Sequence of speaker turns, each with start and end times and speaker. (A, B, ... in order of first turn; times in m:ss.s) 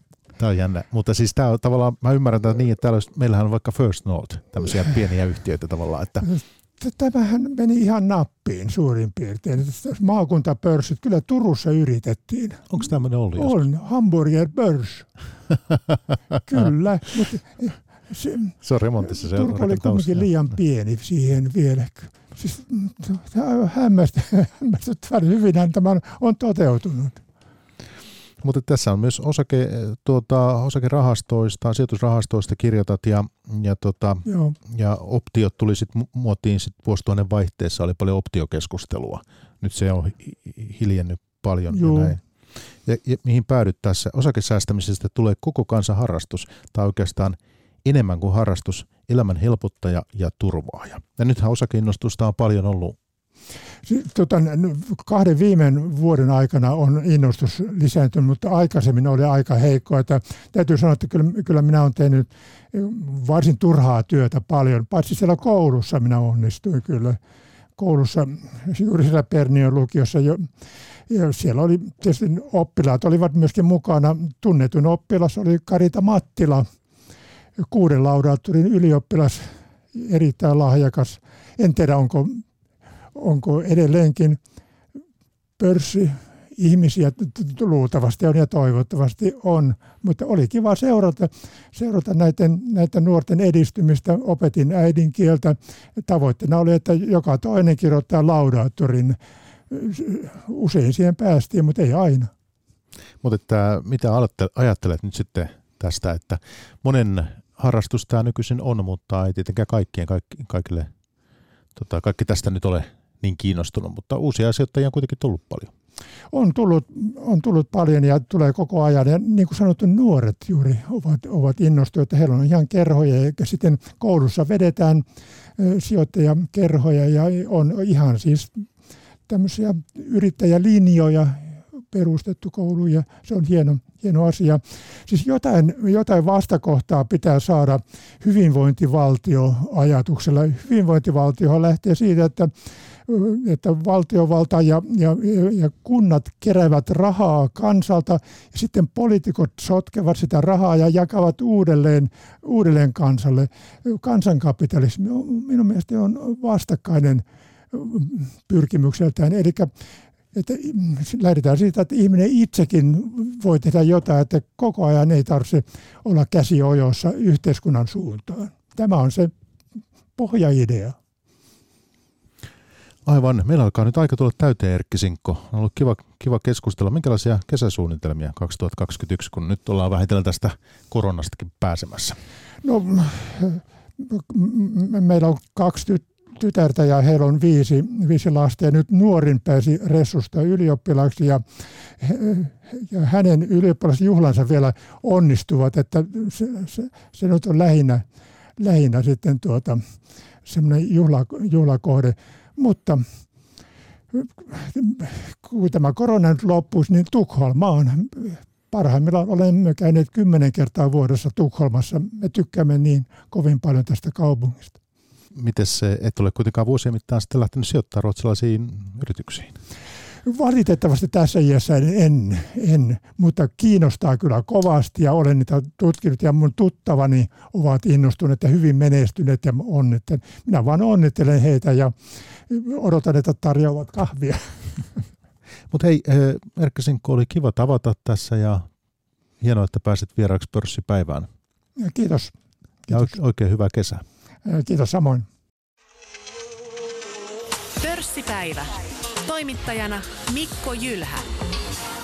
0:00.4-0:06.3 A
0:06.2-0:12.7 B
0:12.7-0:13.6 A
0:13.3-0:15.1 B
0:16.4-0:27.2 B
0:18.6-0:20.3 A
0:28.4-0:42.2 A
0:34.2-0:34.6 B
0:41.7-0:42.2 B
0:42.8-0:53.0 A
0:53.8-1:07.2 B
1:07.8-1:10.5 B
1:11.1-1:16.6 B
1:17.7-1:22.4 B
1:23.1-1:24.4 B
1:25.6-1:39.2 B
1:39.7-1:42.3 B
1:43.2-1:50.9 A
1:51.8-1:55.7 A
1:56.3-2:05.0 B
2:05.6-2:08.6 B
2:09.3-2:22.5 B
2:23.1-2:39.7 B
2:40.3-2:49.3 B
2:50.2-2:51.0 B
2:53.0-3:02.2 A
3:02.6-3:11.4 B
3:12.0-3:18.0 B
3:18.6-3:19.8 B
3:20.4-3:23.0 B
3:24.1-3:34.8 B
3:35.3-3:39.6 A
3:40.2-3:51.9 B
3:52.5-3:54.6 B
3:55.7-3:58.7 A
3:59.4-4:01.3 A
4:01.8-4:02.3 B
4:02.9-4:03.2 B
4:02.9-4:04.0 A
4:04.4-4:05.3 B
4:07.8-4:11.3 C